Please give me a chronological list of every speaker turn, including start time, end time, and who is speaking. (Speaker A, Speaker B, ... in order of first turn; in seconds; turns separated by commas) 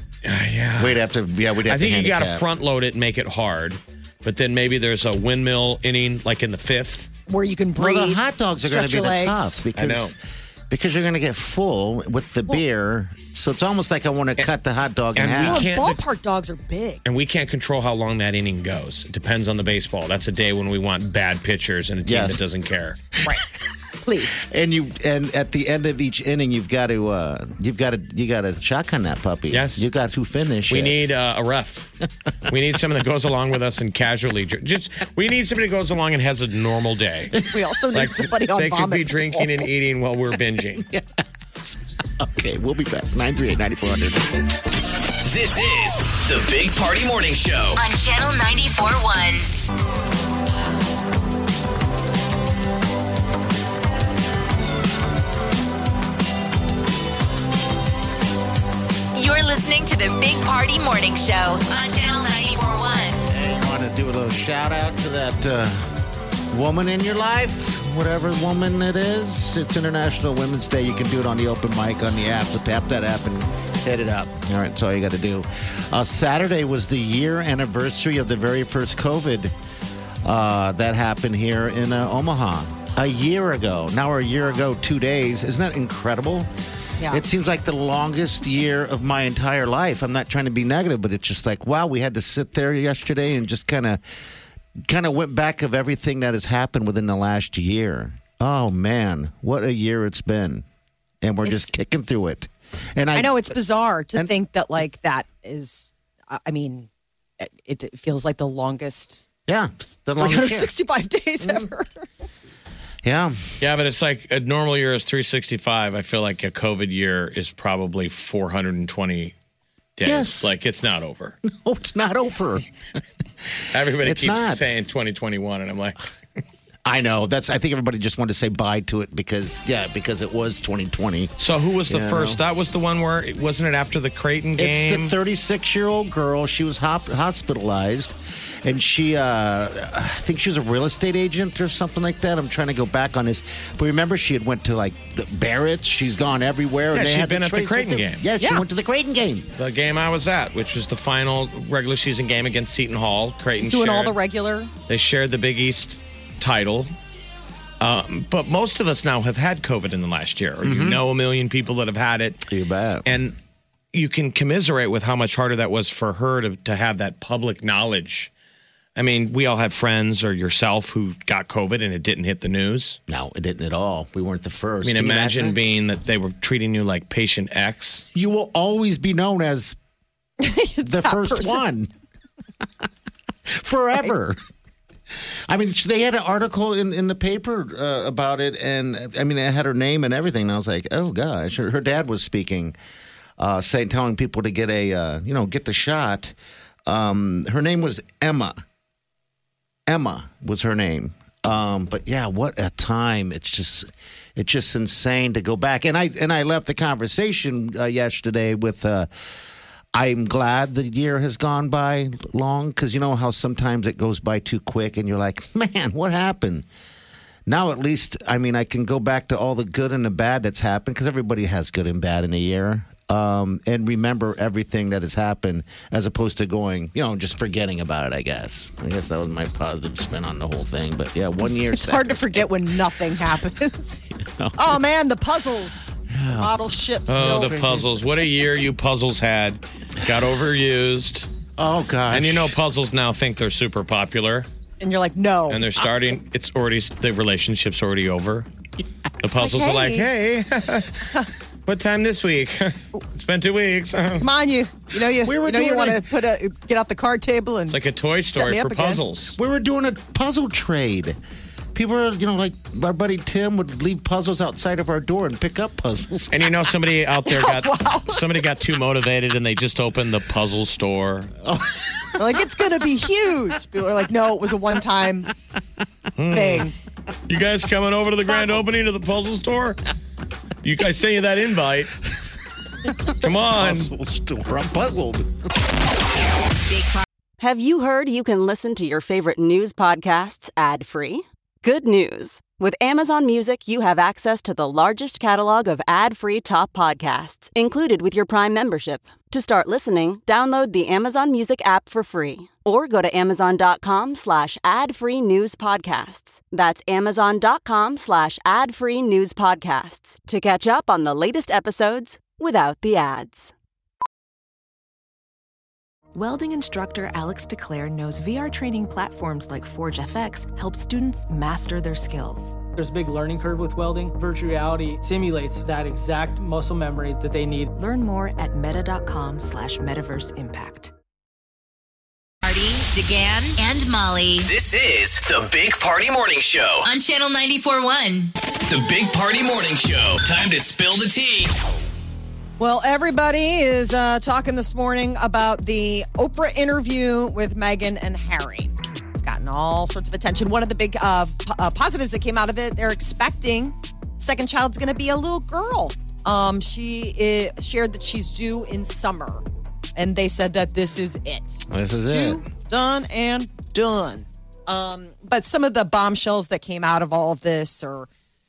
Speaker A: 0.2-1.0, Speaker B: 0.8-2.5, Speaker A: 1.6-7.1, Speaker C: 7.3-9.6, Speaker B: 7.8-10.2, Speaker A: 9.8-10.1, Speaker B: 10.7-15.7, Speaker A: 15.2-16.0, Speaker C: 15.4-17.0, Speaker A: 17.0-23.0, Speaker B: 22.0-22.4, Speaker C: 24.0-24.4, Speaker B: 24.4-31.1, Speaker A: 29.5-29.9, Speaker A: 30.7-31.9, Speaker A: 32.5-37.4, Speaker C: 37.5-39.6, Speaker A: 37.9-40.9, Speaker B: 40.8-44.4, Speaker D: 45.2-47.8, Speaker E: 47.8-49.5, Speaker E: 59.1-63.2, Speaker B: 63.3-65.9, Speaker B: 66.5-79.5, Speaker B: 80.2-86.5, Speaker C: 87.0-87.2, Speaker B: 87.1-94.0, Speaker B: 94.8-100.6, Speaker B: 101.2-103.5, Speaker C: 101.4-101.7, Speaker C: 103.1-106.9, Speaker C: 107.4-109.2, Speaker B: 109.5-110.7, Speaker C: 110.2-112.0, Speaker B: 113.0-113.5, Speaker A: 113.6-119.3, Speaker A: 120.0-121.4, Speaker B: 120.0-120.5, Speaker B: 121.4-122.7, Speaker A: 123.7-126.0, Speaker B: 124.0-124.6, Speaker B: 126.8-131.3, Speaker A: 131.4-135.1, Speaker B: 131.9-132.4, Speaker B: 134.6-149.5, Speaker A: 146.9-148.3, Speaker A: 149.6-154.2, Speaker C: 153.6-154.7, Speaker A: 154.9-156.9, Speaker A: 157.8-162.4, Speaker B: 160.6-161.0, Speaker B: 162.5-163.1, Speaker A: 163.1-163.3, Speaker A: 163.9-168.3, Speaker A: 168.9-173.0, Speaker B: 173.1-175.6, Speaker A: 174.8-178.0, Speaker B: 178.1-179.8, Speaker C: 180.4-181.6, Speaker B: 180.8-181.9, Speaker B: 183.5-184.4, Speaker B: 185.5-192.7, Speaker B: 193.4-198.6, Speaker B: 199.9-209.3, Speaker B: 209.9-216.7, Speaker B: 217.4-232.5, Speaker C: 231.7-234.0, Speaker B: 234.2-234.7, Speaker C: 234.6-237.8, Speaker B: 236.1-236.5, Speaker A: 237.1-241.3, Speaker B: 237.2-237.9, Speaker B: 241.6-242.6, Speaker A: 242.1-244.4, Speaker C: 244.8-245.6, Speaker A: 245.5-248.4, Speaker A: 249.2-251.1, Speaker C: 249.4-250.1, Speaker A: 251.7-254.3, Speaker C: 254.2-257.8, Speaker B: 255.2-256.0, Speaker A: 257.7-259.4, Speaker C: 258.3-259.0, Speaker B: 259.4-261.2, Speaker B: 261.7-266.5, Speaker A: 266.3-271.3, Speaker C: 267.2-268.2, Speaker B: 271.4-272.2, Speaker C: 272.2-275.3, Speaker A: 276.2-276.7, Speaker C: 276.3-276.7, Speaker A: 277.3-279.8, Speaker A: 280.6-281.9, Speaker B: 282.9-285.6, Speaker A: 283.2-283.9, Speaker E: 286.7-287.0, Speaker F: 287.4-313.5, Speaker G: 316.1-322.6, Speaker H: 322.7-327.7, Speaker G: 327.7-330.9, Speaker E: 332.4-334.5, Speaker D: 334.4-336.9, Speaker E: 336.8-338.3, Speaker D: 338.7-341.5, Speaker C: 342.6-359.4, Speaker C: 359.9-368.1, Speaker B: 361.7-362.4